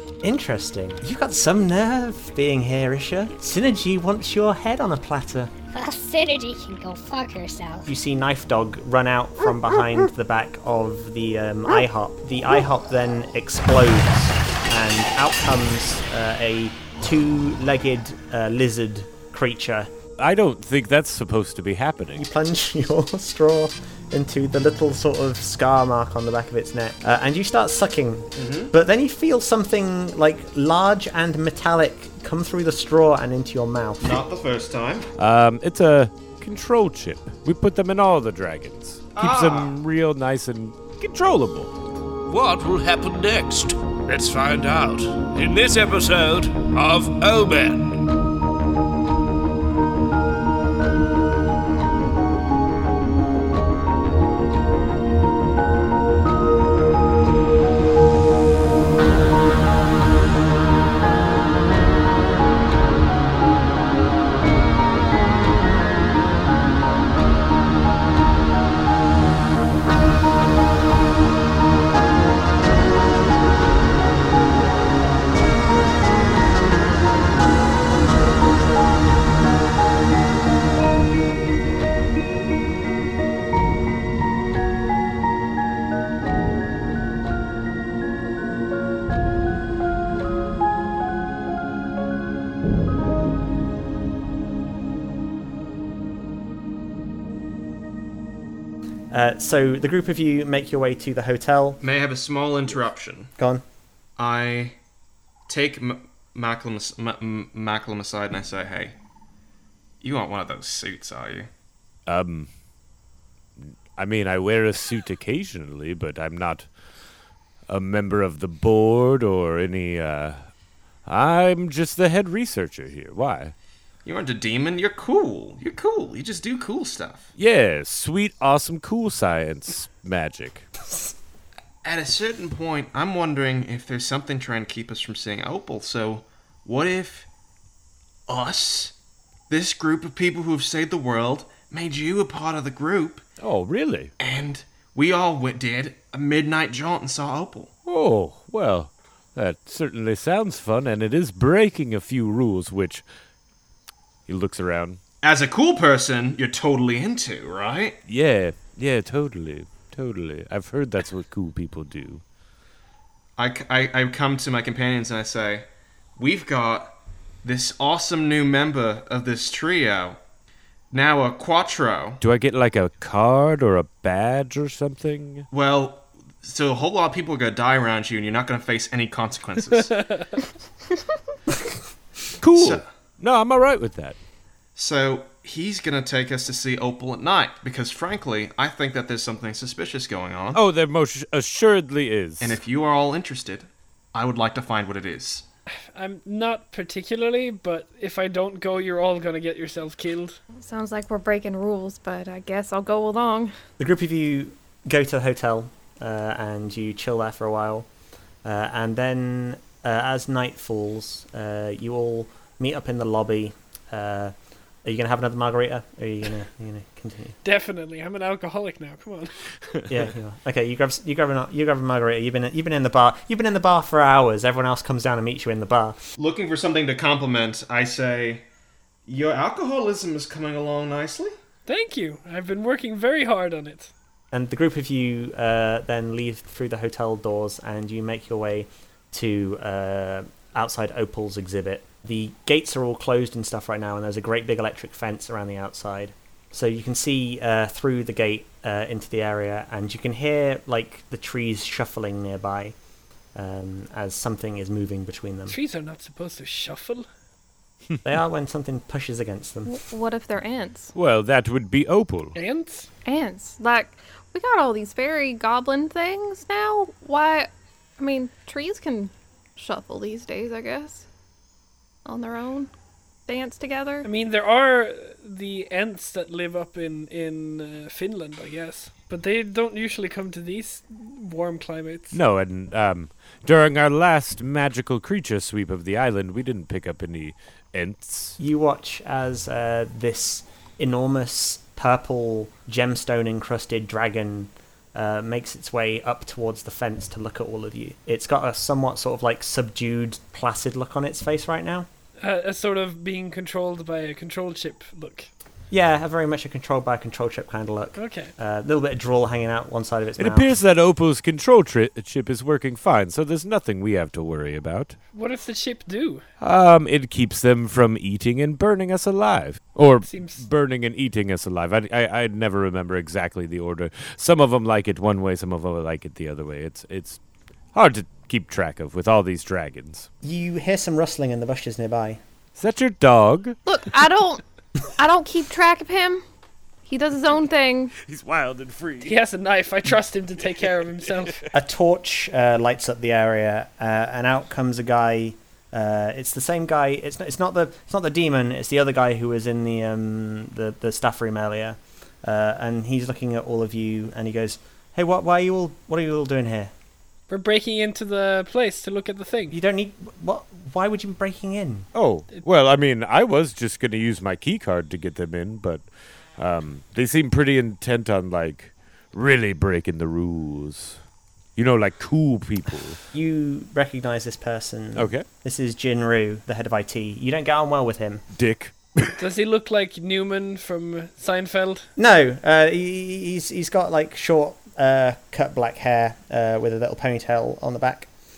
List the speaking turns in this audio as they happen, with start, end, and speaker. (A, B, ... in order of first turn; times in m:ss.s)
0:00.2-0:05.5 A
0:05.7-0:07.9 B
0:07.9-0:19.9 A
0:20.2-0:22.3 C
0:22.2-0:34.2 A
0:28.4-0:28.7 D
0:34.0-0:35.1 D
0:35.2-0:41.7 C
0:39.2-0:39.8 D
0:42.3-0:48.1 E
1:39.1-1:41.8 A
1:41.8-1:43.3 D
1:43.4-1:43.6 A
1:44.2-1:44.8 D
1:45.5-1:49.0 D
1:50.0-1:51.5 D
1:52.1-1:52.5 C
1:53.6-1:56.7 C
1:57.7-2:00.4 C
2:01.1-2:03.5 C
2:04.0-2:07.3 D
2:07.4-2:10.7 C
2:11.8-2:17.3 D
2:18.3-2:18.9 D
2:19.5-2:23.2 D
2:23.4-2:24.1 C
2:24.2-2:27.7 D
2:27.8-2:33.0 C
2:34.3-2:35.0 C
2:35.2-2:38.0 D
2:38.1-2:42.2 C
2:43.4-2:46.9 D
2:47.4-2:50.2 D
2:50.9-2:52.2 D
2:52.2-2:55.5 C
2:55.5-3:00.0 D
3:00.0-3:00.2 F
3:02.4-3:04.2 C
3:02.6-3:02.8 D
3:04.8-3:10.6 D
3:10.5-3:12.6 C
3:12.4-3:15.4 D
3:15.9-3:20.4 F
3:20.6-3:23.5 G
3:23.8-3:27.9 A
3:28.4-3:37.4 A
3:37.4-3:39.4 F
3:39.9-3:46.0 A
3:46.2-3:48.4 D
3:49.1-3:51.3 D
3:51.7-3:53.9 F
3:54.3-4:12.8 A
4:13.4-4:15.6 A
4:15.5-4:17.1 F
4:18.0-4:19.8 A
4:19.7-4:20.9 G
4:21.0-4:22.4 C
4:22.4-4:22.9 F
4:23.0-4:31.1 G
4:32.0-4:32.7 G
4:33.3-4:34.1 G
4:34.0-4:42.2 F
4:42.1-4:48.4 C
4:48.4-5:01.9 A
5:02.2-5:05.3 F
5:05.7-5:10.6 A
5:08.0-5:08.3 F
5:10.2-5:15.0 C
5:15.1-5:16.2 F
5:16.4-5:27.2 C
5:20.0-5:20.4 F
5:27.7-5:30.1 C
5:30.2-5:32.2 A
5:32.6-5:33.6 C
5:33.7-5:36.2 G
5:36.8-5:37.9 G
5:38.0-5:39.1 C
5:39.0-5:41.4 F
5:41.5-5:56.7 A
5:57.3-5:59.6 F
5:59.5-6:01.9 A
6:01.9-6:05.9 C
6:06.4-6:11.0 C
6:11.6-6:13.0 C
6:13.1-6:18.2 A
6:15.0-6:15.3 C
6:18.3-6:19.2 C
6:19.2-6:21.9 F
6:22.0-6:28.1 A